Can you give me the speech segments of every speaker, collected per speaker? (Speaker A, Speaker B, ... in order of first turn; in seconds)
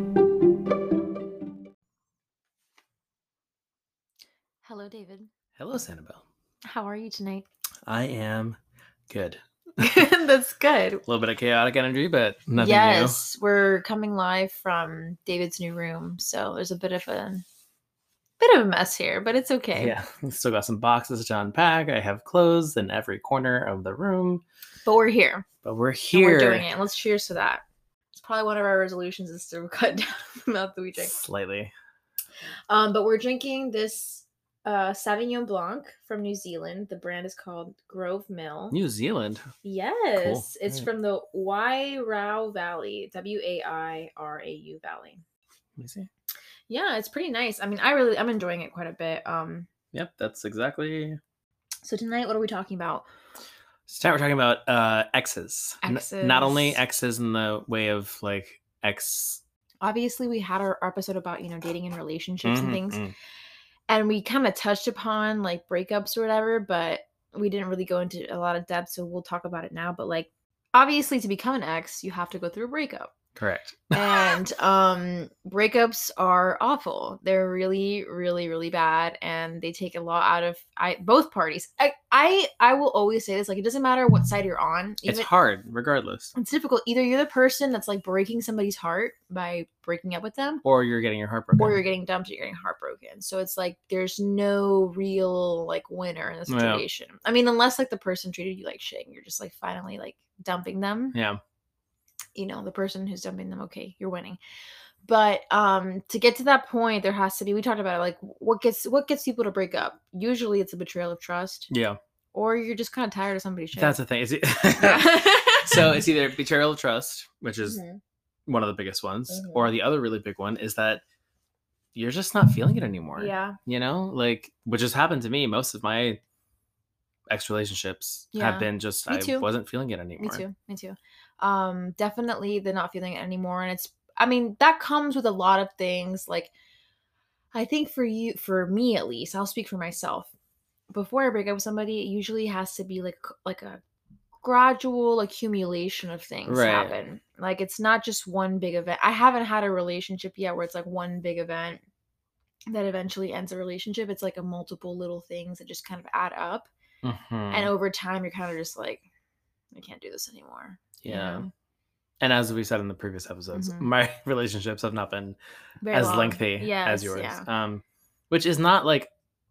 Speaker A: 4.6-5.3, 6.7-7.5, 9.8-11.0, 12.6-17.4, 18.4-19.9, 24.8-25.5, 26.1-27.6, 28.1-31.2, 32.7-38.8, 39.6-45.2, 46.7-49.7, 51.8-53.1, 55.8-56.8, 59.8-63.0, 63.9-73.1, 73.9-85.3, 86.3-90.6, 91.6-101.2, 102.3-104.4, 105.0-111.7, 112.3-114.0, 114.7-116.0, 117.6-118.0, 119.3-119.7, 123.2-123.6, 128.3-129.5, 130.2-136.5, 137.5-140.3, 140.9-143.8, 144.4-151.8, 152.7-156.7, 157.5-159.0, 159.7-161.5, 163.5-163.9, 165.8-167.5
Speaker B: 5.6-6.2, 7.9-8.6, 9.1-10.1, 11.1-13.2, 19.8-24.4, 25.6-26.7, 31.0-31.7, 38.7-39.5, 40.2-40.9, 45.8-46.1, 49.9-51.2, 53.9-59.4, 62.5-63.1, 73.4-74.4, 85.1-86.3, 90.6-91.8, 96.5-96.8, 101.1-101.4, 111.7-112.0, 113.8-117.8, 118.5-121.0, 122.0-126.2, 127.3-130.4, 146.5-146.9, 157.0-157.7, 161.0-161.4, 162.2-165.4, 165.9-169.1